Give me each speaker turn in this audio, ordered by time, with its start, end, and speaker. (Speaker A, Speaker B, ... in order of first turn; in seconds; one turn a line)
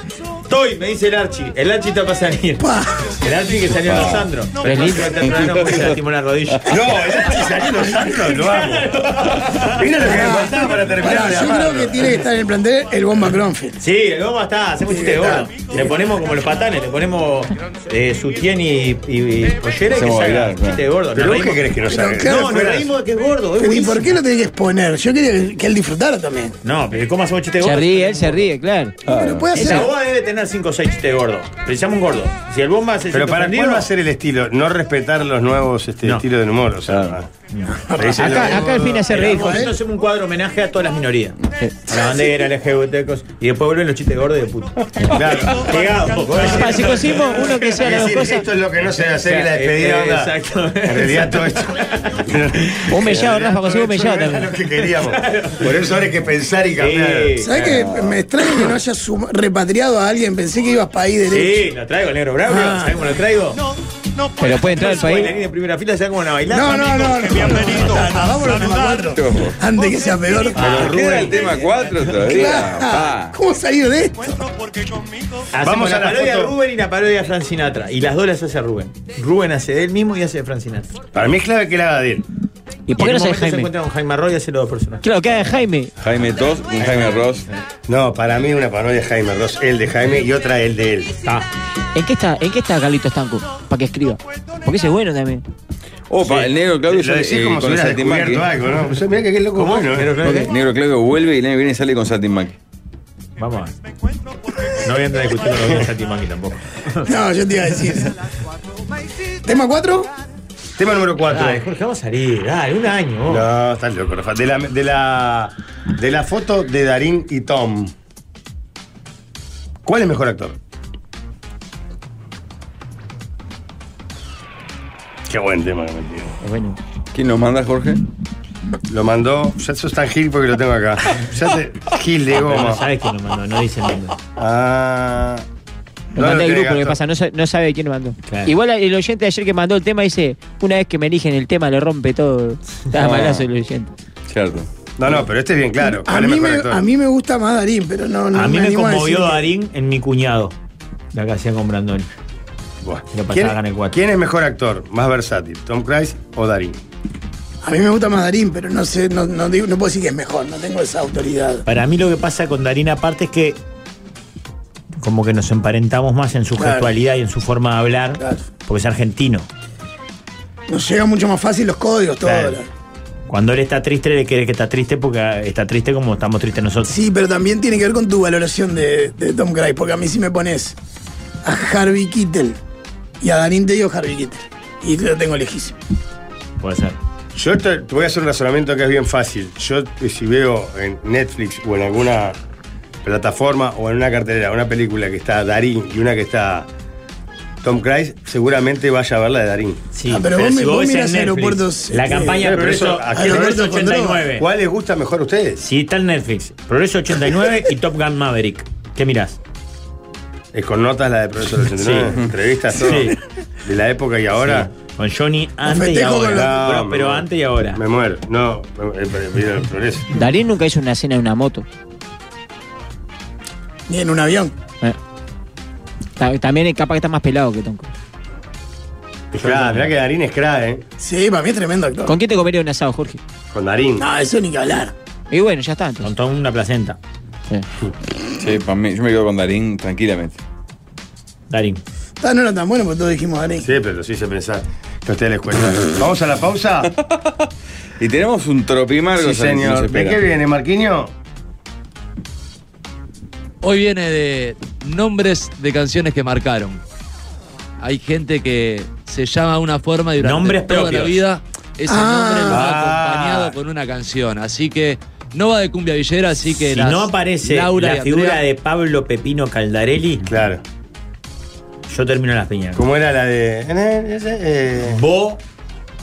Speaker A: 0.5-2.7
Speaker B: 2.6-3.2
Speaker A: 3.2-11.4
Speaker C: 3.8-4.3
Speaker D: 4.6-5.2
Speaker C: 5.2-6.0
Speaker E: 6.7-8.9
Speaker E: 9.6-12.2
Speaker B: 10.1-13.8
Speaker A: 13.8-21.7
Speaker B: 14.9-15.7
Speaker C: 19.9-20.9
Speaker E: 21.1-22.9
Speaker B: 21.9-22.8
Speaker A: 22.2-24.1
Speaker B: 23.6-26.6
Speaker A: 26.6-28.5
Speaker D: 27.6-29.0
Speaker C: 29.1-29.5
Speaker B: 29.1-29.9
Speaker A: 29.5-33.9
Speaker D: 29.6-29.9
Speaker E: 33.1-37.3
Speaker C: 36.9-37.2
Speaker A: 37.5-47.6
Speaker B: 37.8-38.7
Speaker E: 38.0-39.0
Speaker D: 38.1-39.7
Speaker B: 39.2-39.7
Speaker E: 45.1-47.0
Speaker D: 46.3-48.5
Speaker E: 47.7-50.3
Speaker A: 49.2-52.2
Speaker E: 50.9-57.4
Speaker D: 52.9-54.5
Speaker A: 55.1-55.7
Speaker A: 56.8-57.9
Speaker B: 57.4-61.6
Speaker A: 61.3-63.6
Speaker B: 62.5-63.0
Speaker D: 64.4-65.3
Speaker A: 64.6-68.1
Speaker B: 66.5-70.9
Speaker C: 69.0-69.6
Speaker A: 70.5-71.5
Speaker E: 70.6-71.0
Speaker C: 70.7-73.3
Speaker B: 72.2-74.5
Speaker A: 75.5-80.9
Speaker E: 75.6-76.5
Speaker E: 81.2-82.2
Speaker D: 82.9-83.7
Speaker A: 83.0-85.6
Speaker D: 85.0-85.9
Speaker C: 86.0-87.5
Speaker A: 86.8-87.2
Speaker E: 87.9-91.1
Speaker D: 92.0-95.4
Speaker C: 96.1-98.5
Speaker E: 96.2-100.2
Speaker A: 99.6-100.5
Speaker C: 100.3-102.6
Speaker A: 103.4-103.7
Speaker A: 104.8-107.1
Speaker B: 107.0-108.1
Speaker B: 109.4-110.1
Speaker E: 110.8-111.7
Speaker A: 111.3-113.5
Speaker E: 113.3-117.9
Speaker E: 119.8-120.6
Speaker E: 125.3-126.3
Speaker D: 126.4-126.8
Speaker C: 127.1-128.0
Speaker E: 128.9-132.8
Speaker A: 132.3-134.2
Speaker E: 134.4-135.4
Speaker D: 136.2-143.9
Speaker E: 136.2-137.0
Speaker A: 138.3-138.5
Speaker C: 143.0-143.5
Speaker C: 144.3-144.7
Speaker E: 145.0-146.8
Speaker B: 145.8-149.4
Speaker A: 148.3-150.6
Speaker A: 151.1-152.1
Speaker E: 152.8-156.8
Speaker A: 153.1-154.0
Speaker B: 157.6-161.7
Speaker A: 161.7-163.6
Speaker A: 165.0-169.5
Speaker B: 166.6-166.9
Speaker B: 170.7-172.7
Speaker A: 172.2-172.6
Speaker A: 173.3-176.9
Speaker B: 176.8-180.8
Speaker B: 181.4-182.6
Speaker B: 183.2-185.8
Speaker A: 186.6-187.0
Speaker E: 187.3-192.4
Speaker E: 193.0-196.7
Speaker E: 197.6-199.8
Speaker A: 199.9-204.5
Speaker B: 200.1-202.6
Speaker E: 202.3-205.6
Speaker B: 203.1-204.3
Speaker A: 205.6-209.4
Speaker E: 210.5-214.7
Speaker A: 211.8-212.2
Speaker A: 212.7-213.2
Speaker A: 214.4-217.8
Speaker B: 215.7-216.6
Speaker E: 216.3-220.1
Speaker D: 220.1-221.7
Speaker B: 223.9-224.6
Speaker D: 226.2-227.9
Speaker E: 229.3-230.8
Speaker A: 229.4-229.9
Speaker B: 231.0-232.2
Speaker D: 232.1-233.2
Speaker E: 233.5-234.1
Speaker B: 234.0-234.9
Speaker D: 235.3-236.1
Speaker A: 236.0-237.0
Speaker C: 238.4-240.4
Speaker A: 241.5-241.8
Speaker B: 242.2-243.7
Speaker E: 243.6-246.9
Speaker C: 247.0-247.3
Speaker C: 248.0-250.2
Speaker E: 249.2-251.1
Speaker F: 253.6-256.8
Speaker F: 257.8-268.4
Speaker A: 260.2-261.2
Speaker B: 261.9-262.7
Speaker E: 262.5-263.6
Speaker A: 266.6-270.3
Speaker E: 270.3-270.6
Speaker A: 271.9-272.8
Speaker E: 272.8-275.0
Speaker A: 274.9-275.4